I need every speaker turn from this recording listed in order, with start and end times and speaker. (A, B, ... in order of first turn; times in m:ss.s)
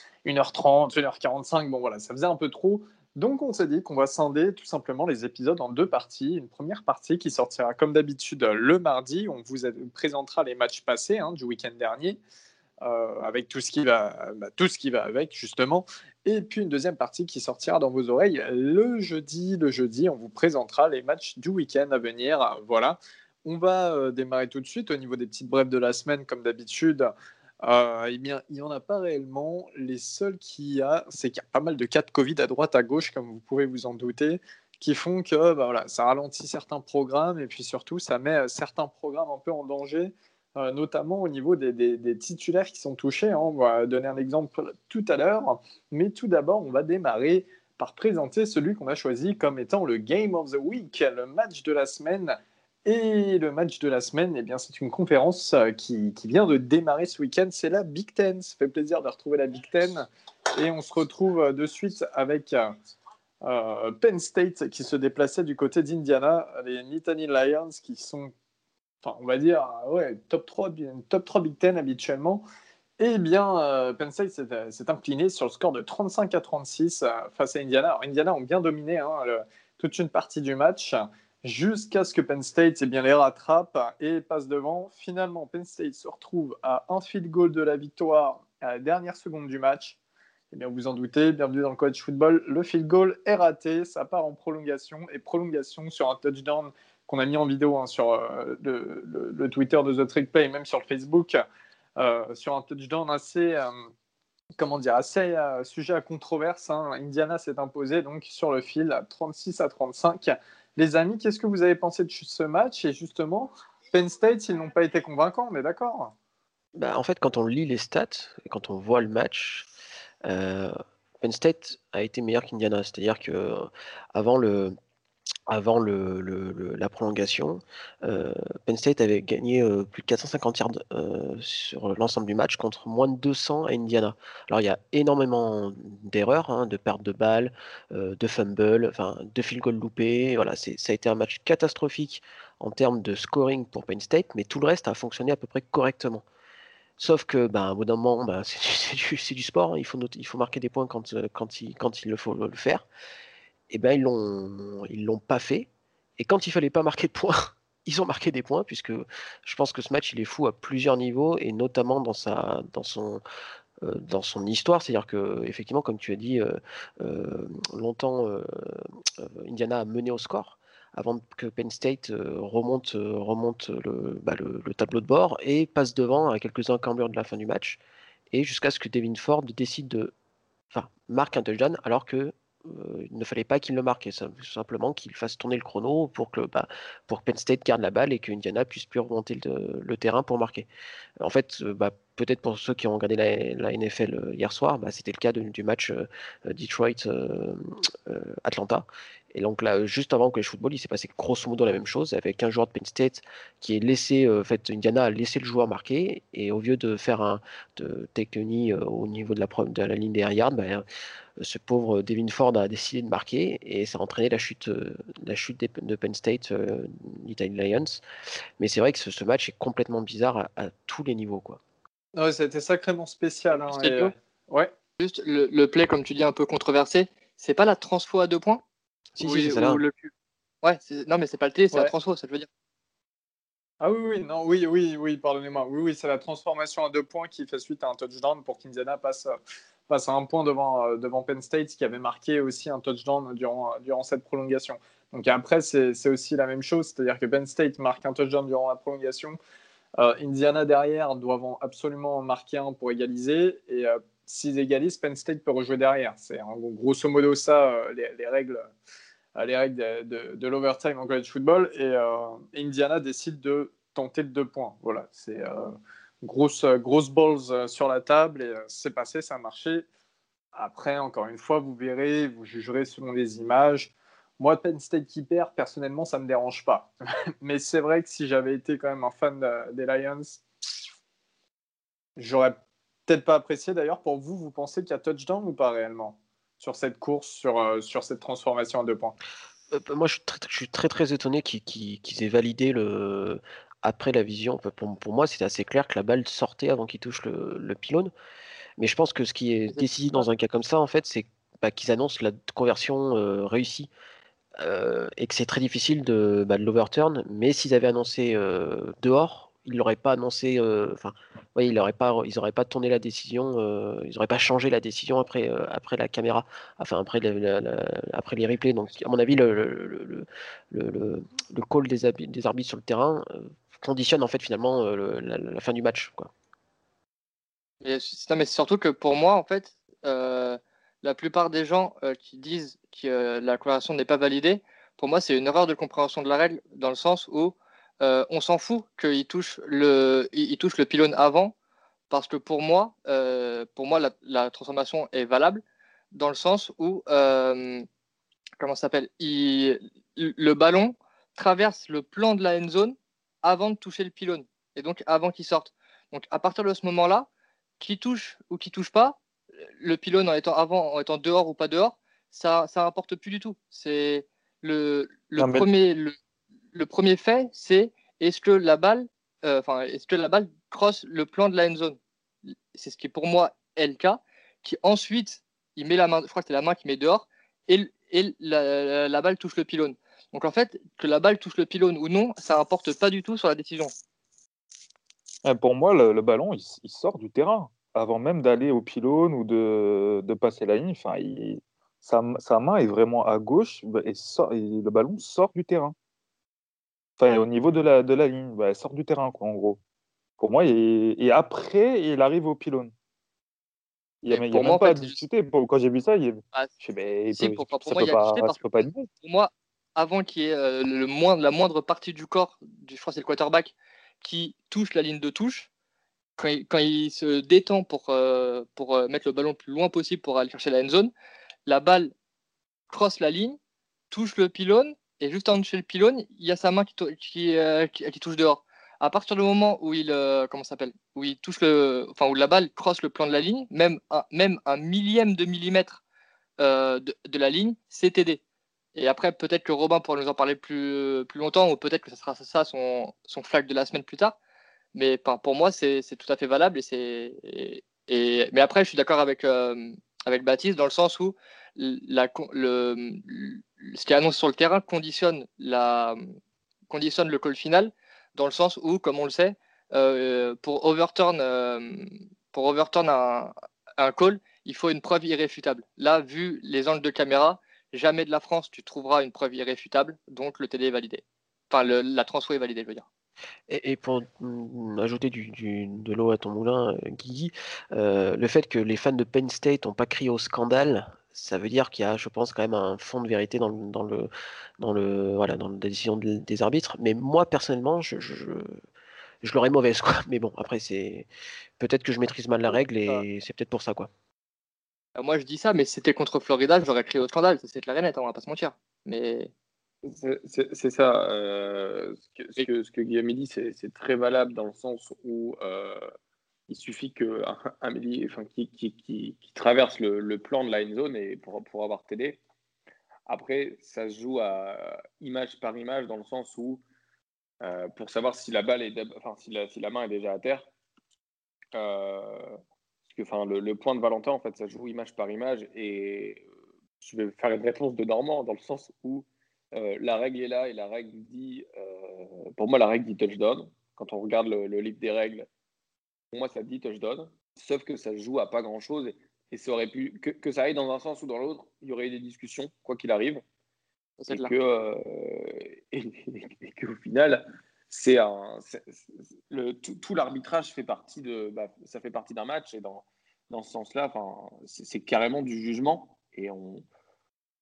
0:00.2-0:12.2 A
0:12.8-0:27.1 A
0:27.6-1:02.7 A
1:03.4-1:08.3 A
1:09.0-1:12.4 A
1:13.0-1:30.0 A
1:30.5-1:41.4 A
1:42.0-1:43.9 A
1:44.6-1:56.1 A
1:56.7-1:59.7 B
2:00.2-2:04.7 B
2:05.5-2:26.2 B
2:27.0-2:32.8 B
2:33.7-2:35.7 B
2:36.2-2:43.2 B
2:43.8-2:57.8 B
2:58.3-3:00.1 B
3:00.7-3:10.7 B
3:11.2-3:30.8 B
3:31.4-3:38.0 B
3:38.6-3:41.6 B
3:42.2-3:44.7 A
3:43.5-3:44.1 C
3:45.0-3:48.6 C
3:49.2-3:49.8 B
3:49.2-3:50.1 C
3:50.6-3:52.5 C
3:53.8-3:59.4 A
3:59.9-4:09.4 A
4:10.0-4:18.7 A
4:19.4-4:29.8 A
4:30.5-4:36.9 A
4:37.4-4:40.4 A
4:42.2-4:49.2 A
4:49.7-4:58.1 B
4:58.8-5:03.9 B
4:59.7-5:00.2 C
5:04.6-5:26.3 B
5:27.8-5:41.5 C
5:42.1-5:47.8 C
5:48.6-5:57.3 C
5:57.8-5:59.2 C
5:59.8-6:06.2 C
6:05.4-6:05.7 D
6:06.7-6:23.9 C
6:25.4-6:35.9 D
6:37.2-6:39.8 D
6:40.4-6:42.9 D
6:44.2-6:49.1 D
6:44.3-6:45.2 C
6:47.3-6:55.7 C
6:56.4-7:01.1 C
7:01.6-7:02.1 C
7:02.9-7:03.6 C
7:04.1-7:16.0 C
7:16.6-7:18.4 C
7:18.9-7:24.4 C
7:24.9-7:36.3 C
7:36.9-7:53.1 C
7:53.7-8:08.8 B
8:09.4-8:11.3 B
8:11.8-8:14.1 B
8:15.2-8:19.5 C
8:20.0-8:26.1 E
8:26.7-8:32.4 E
8:33.3-8:36.8 E
8:37.6-8:40.7 E
8:41.7-8:46.4 E
8:47.0-8:55.5 E
8:56.3-9:03.4 E
9:04.2-9:04.5 C
9:04.3-9:16.8 E